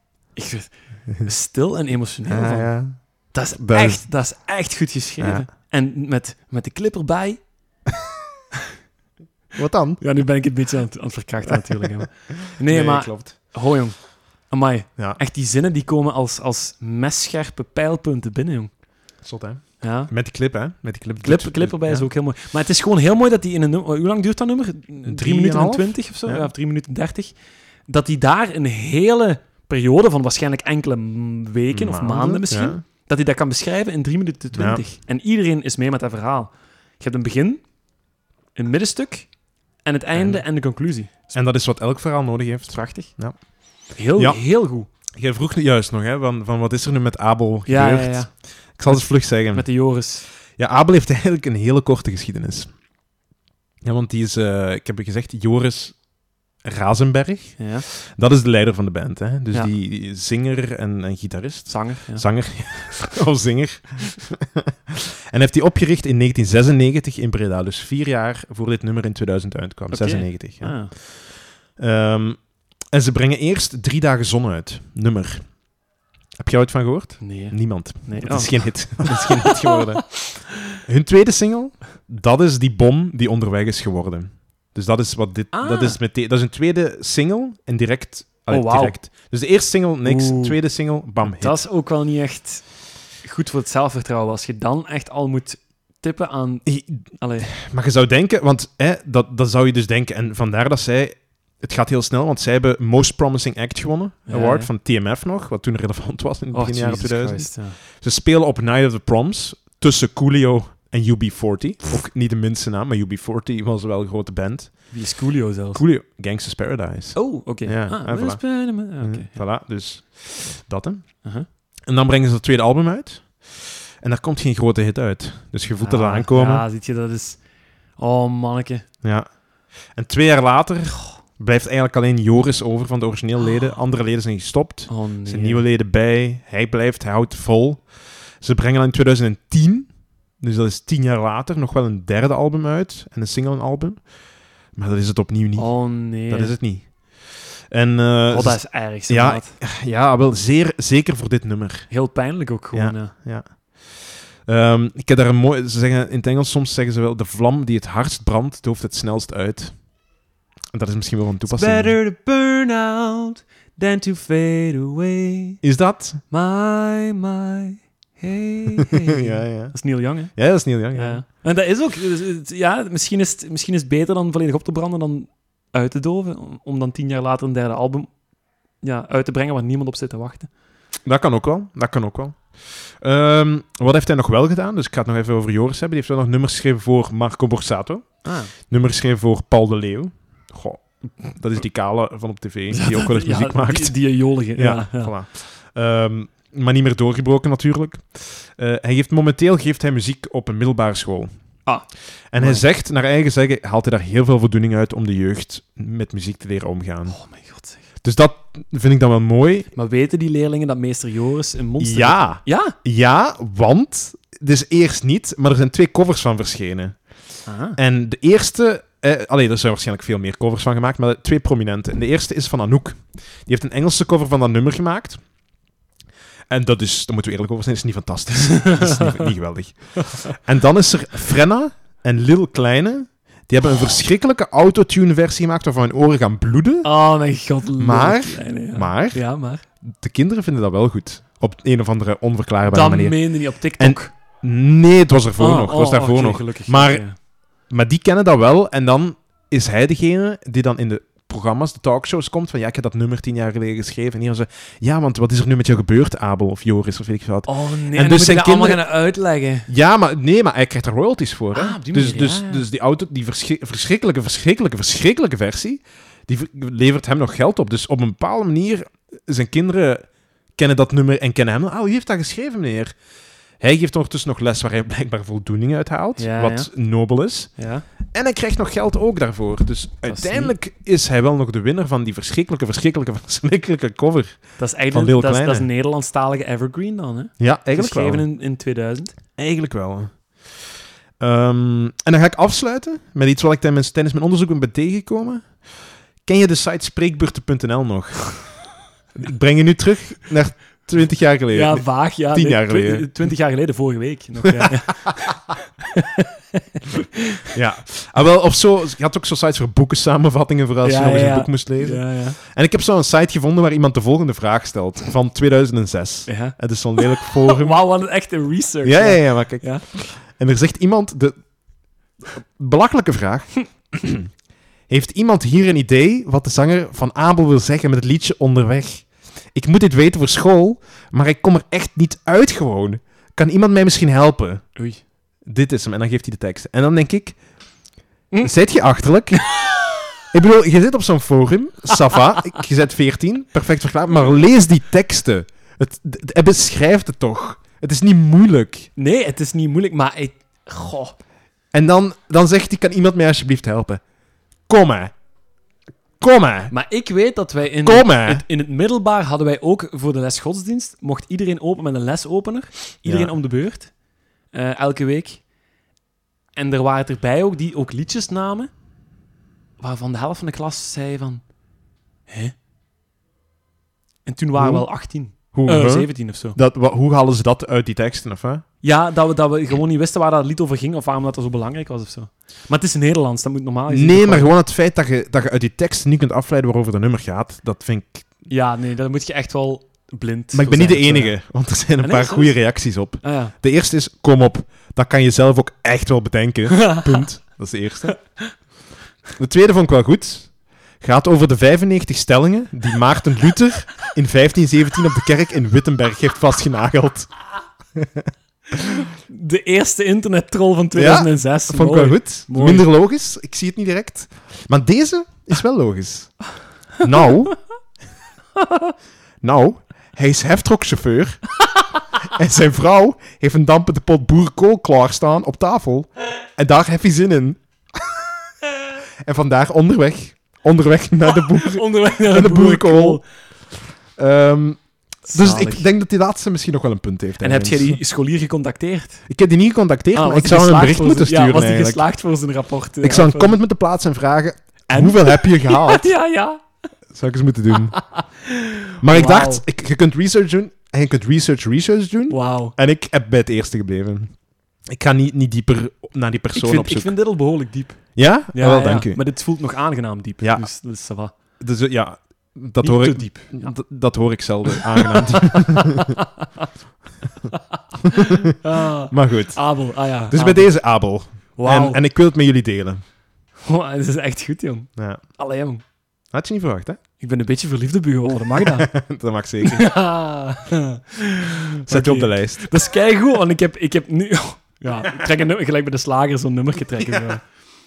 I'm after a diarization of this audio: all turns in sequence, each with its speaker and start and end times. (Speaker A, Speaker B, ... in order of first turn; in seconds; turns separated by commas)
Speaker A: 0.3-2.7, Speaker B: 2.3-4.0, Speaker A: 3.3-7.4, Speaker B: 5.2-5.5, Speaker B: 9.5-10.0, Speaker A: 10.0-18.7, Speaker B: 11.8-13.4, Speaker B: 19.2-22.1, Speaker A: 19.8-20.1, Speaker A: 21.2-27.3, Speaker B: 25.1-26.5, Speaker A: 27.9-37.6, Speaker B: 31.7-32.8, Speaker B: 34.5-34.8, Speaker A: 38.5-39.3, Speaker A: 39.8-41.4, Speaker B: 40.1-40.4, Speaker B: 41.3-43.4, Speaker A: 42.7-43.1, Speaker A: 43.9-44.9, Speaker B: 44.1-44.4, Speaker B: 45.1-49.7, Speaker A: 47.6-48.3, Speaker A: 48.9-50.2, Speaker B: 50.5-52.7, Speaker B: 53.8-56.0, Speaker B: 56.6-71.0, Speaker A: 57.6-57.8, Speaker A: 61.7-62.2, Speaker A: 69.9-70.9, Speaker B: 71.8-75.6, Speaker B: 76.4-80.2, Speaker A: 77.2-80.4, Speaker B: 80.8-91.6, Speaker A: 85.5-86.0, Speaker A: 88.5-89.0, Speaker A: 90.0-90.6, Speaker A: 91.2-92.6, Speaker A: 93.2-97.5, Speaker B: 96.6-115.0, Speaker A: 104.3-104.7, Speaker A: 106.5-107.8, Speaker A: 114.9-115.8, Speaker B: 115.7-121.1, Speaker A: 117.1-119.3, Speaker B: 121.9-126.6, Speaker A: 125.8-127.4, Speaker A: 128.0-128.8, Speaker B: 129.9-137.8, Speaker A: 134.9-135.6, Speaker B: 138.4-144.0, Speaker B: 144.7-151.9, Speaker A: 145.6-146.6, Speaker A: 148.3-149.5, Speaker A: 151.9-153.1, Speaker B: 152.7-153.9, Speaker B: 154.4-159.9, Speaker B: 160.7-162.0, Speaker A: 161.4-165.6, Speaker B: 165.6-166.2, Speaker A: 166.3-178.1, Speaker B: 169.2-171.2, Speaker A: 178.8-180.5, Speaker B: 181.1-194.0, Speaker A: 188.2-188.5, Speaker A: 192.7-195.1, Speaker B: 194.5-201.3, Speaker A: 201.7-202.6, Speaker B: 202.3-207.2, Speaker A: 207.1-207.8, Speaker B: 208.0-209.7, Speaker A: 209.7-212.8, Speaker B: 211.8-217.0, Speaker A: 217.4-217.8, Speaker B: 217.8-225.2, Speaker B: 226.5-236.9, Speaker A: 228.6-229.1, Speaker A: 236.8-239.6, Speaker B: 237.8-239.3, Speaker B: 239.8-243.2, Speaker A: 242.7-244.1, Speaker B: 243.8-247.1, Speaker A: 245.4-247.1, Speaker B: 247.7-258.8, Speaker A: 257.4-259.7, Speaker B: 259.7-272.9, Speaker A: 261.5-262.6, Speaker B: 273.6-277.5, Speaker A: 276.2-276.7, Speaker A: 277.6-277.8, Speaker B: 278.1-285.7, Speaker A: 280.1-280.5, Speaker A: 284.6-289.1, Speaker B: 287.4-288.2, Speaker B: 289.4-290.2, Speaker B: 291.2-295.6, Speaker B: 296.2-303.1, Speaker A: 301.5-307.4, Speaker B: 307.5-317.8, Speaker A: 310.8-312.4, Speaker A: 316.3-319.8, Speaker B: 318.8-321.3, Speaker B: 322.4-324.3, Speaker B: 324.9-334.7, Speaker A: 334.8-335.0, Speaker B: 335.4-337.4, Speaker B: 338.4-339.6, Speaker A: 339.6-339.9, Speaker B: 340.3-348.9, Speaker A: 349.0-351.1, Speaker B: 351.7-354.0, Speaker B: 354.7-355.1, Speaker B: 356.2-356.7, Speaker A: 356.7-363.9, Speaker B: 357.8-358.4, Speaker B: 363.1-363.3, Speaker A: 364.5-365.4, Speaker A: 366.6-368.7, Speaker A: 369.8-371.4, Speaker A: 372.3-372.5, Speaker A: 374.2-376.6, Speaker B: 374.6-374.9, Speaker B: 375.5-378.6, Speaker A: 378.8-384.5, Speaker B: 383.9-388.2, Speaker A: 388.5-391.3, Speaker B: 390.5-398.2, Speaker A: 392.0-392.5, Speaker A: 393.2-393.5, Speaker A: 396.8-397.2, Speaker B: 399.4-407.3, Speaker B: 407.9-409.0, Speaker A: 409.2-412.9, Speaker B: 410.9-416.4, Speaker B: 417.0-417.6, Speaker B: 419.4-421.5, Speaker B: 422.2-428.1, Speaker B: 429.2-433.2, Speaker A: 431.3-433.2, Speaker B: 434.1-438.0, Speaker A: 435.3-435.9, Speaker A: 437.4-439.2, Speaker B: 439.3-442.1, Speaker A: 440.1-443.6, Speaker B: 443.0-446.1, Speaker A: 444.9-446.6, Speaker B: 447.1-448.0, Speaker A: 447.7-449.6, Speaker B: 449.0-454.4, Speaker A: 452.3-452.7, Speaker B: 454.9-457.1, Speaker A: 456.5-461.3, Speaker B: 458.1-459.2, Speaker B: 460.4-460.7, Speaker B: 461.6-466.1, Speaker A: 462.8-463.7, Speaker A: 464.7-466.7, Speaker A: 467.5-470.7, Speaker B: 468.0-468.4, Speaker B: 469.1-469.7, Speaker B: 470.3-473.0, Speaker A: 471.6-472.0, Speaker A: 473.6-475.8, Speaker B: 476.3-477.0, Speaker A: 477.2-478.9, Speaker B: 478.6-479.9, Speaker A: 479.6-487.4, Speaker B: 481.9-482.7, Speaker B: 487.0-487.3